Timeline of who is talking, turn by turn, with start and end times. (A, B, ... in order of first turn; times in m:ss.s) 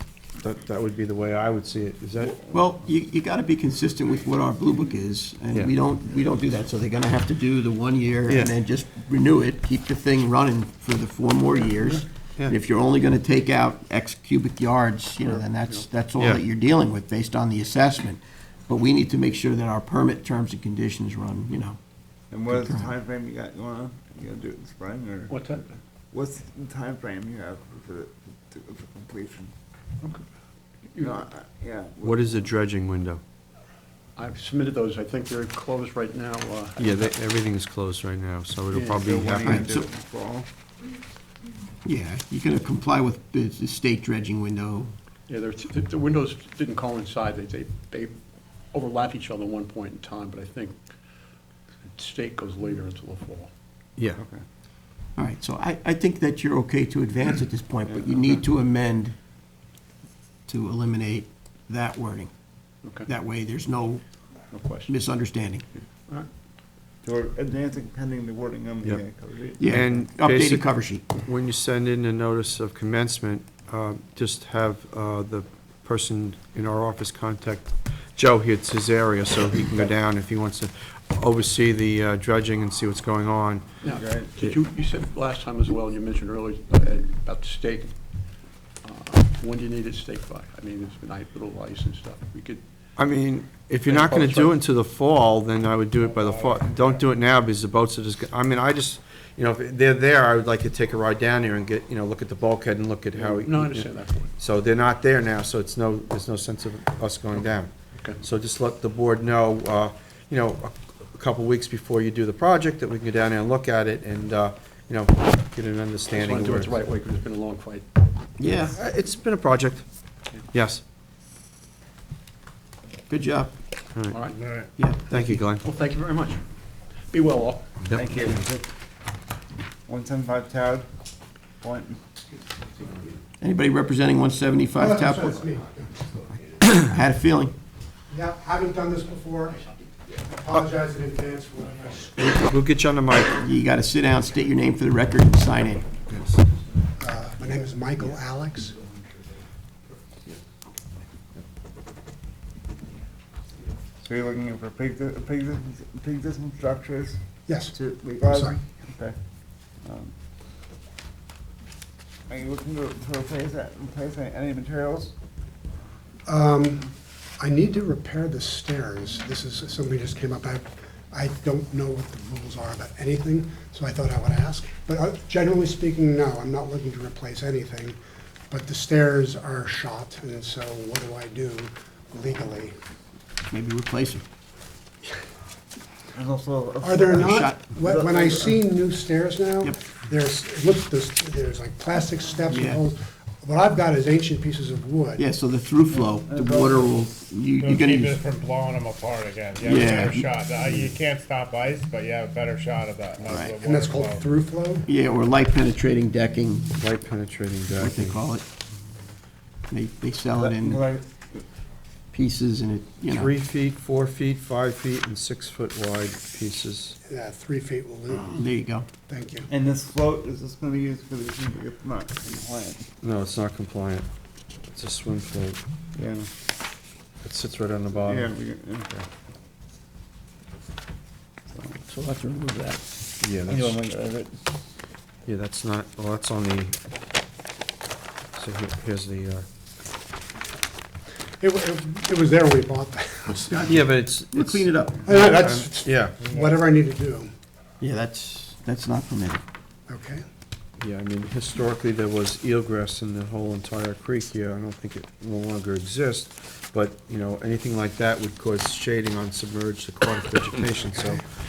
0:00.4-0:02.4 A
0:02.5-0:21.8 B
0:08.3-0:08.6 A
0:15.2-0:15.9 C
0:16.2-0:16.4 A
0:22.3-0:25.4 D
0:22.5-0:22.9 B
0:25.3-0:25.7 C
0:26.1-0:29.5 D
0:31.0-0:32.4 D
0:32.0-0:33.2 A
0:34.2-0:37.2 C
0:36.8-0:39.7 A
0:38.7-0:39.0 C
0:39.0-0:40.5 D
0:39.4-0:39.9 B
0:41.8-0:44.9 B
0:45.3-0:48.2 C
0:48.7-0:51.0 C
0:51.9-0:53.5 C
0:54.2-0:54.4 D
0:55.2-0:59.2 B
1:00.5-1:02.3 B
1:03.0-1:04.0 B
1:04.5-1:04.9 C
1:04.9-1:05.7 B
1:07.0-1:09.8 D
1:09.6-1:11.1 B
1:09.6-1:23.7 A
1:23.8-1:28.0 C
1:23.9-1:24.3 D
1:28.8-1:32.6 C
1:33.0-1:56.7 A
1:33.9-1:34.5 C
1:36.5-1:36.9 E
1:43.2-1:44.3 C
1:56.1-1:57.9 C
1:58.4-1:58.8 B
1:58.7-2:00.8 A
2:03.1-2:03.5 B
2:04.0-2:04.2 A
2:04.1-2:04.4 C
2:04.4-2:04.7 E
2:04.8-2:05.4 B
2:05.1-2:05.6 A
2:05.6-2:07.7 C
2:07.8-2:08.1 A
2:08.0-2:08.6 D
2:09.9-2:10.9 D
2:11.6-2:12.0 D
2:13.4-2:15.5 B
2:14.8-2:16.0 F
2:16.7-2:17.5 B
2:18.1-2:19.6 F
2:20.3-2:22.1 F
2:22.2-2:23.4 A
2:23.4-2:25.9 B
2:26.1-2:26.4 A
2:27.0-2:28.7 F
2:34.0-2:37.2 D
2:37.5-2:38.6 F
2:37.7-2:39.2 D
2:39.8-2:40.1 D
2:42.3-2:45.1 D
2:46.3-2:58.0 F
2:58.5-3:02.8 F
3:03.5-3:04.2 B
3:06.1-3:08.6 D
3:06.8-3:15.2 F
3:07.1-3:07.7 B
3:12.5-3:12.8 B
3:15.2-3:18.2 B
3:16.2-3:16.9 D
3:17.6-3:24.4 E
3:19.6-3:20.3 B
3:23.3-3:23.5 B
3:23.5-3:24.9 F
3:24.8-3:26.7 B
3:26.8-3:28.2 A
3:27.8-3:28.4 B
3:29.7-3:30.8 B
3:30.3-3:31.4 D
3:32.1-3:33.3 B
3:33.1-3:37.0 A
3:37.0-3:38.4 F
3:38.1-3:38.9 B
3:39.1-3:39.5 F
3:39.5-3:42.8 D
3:43.0-3:44.1 A
3:44.7-3:45.6 A
3:46.0-3:46.3 D
3:47.2-3:48.3 A
3:48.0-3:49.0 D
3:51.5-3:52.8 C
3:53.2-3:53.8 A
3:53.5-3:54.5 D
3:55.3-3:56.8 A
3:58.4-3:59.4 A
4:01.4-4:03.8 F
4:03.6-4:06.3 A
4:04.3-4:05.0 B
4:05.0-4:07.3 F
4:07.8-4:09.4 B
4:09.9-4:10.2 F
4:10.8-4:21.2 A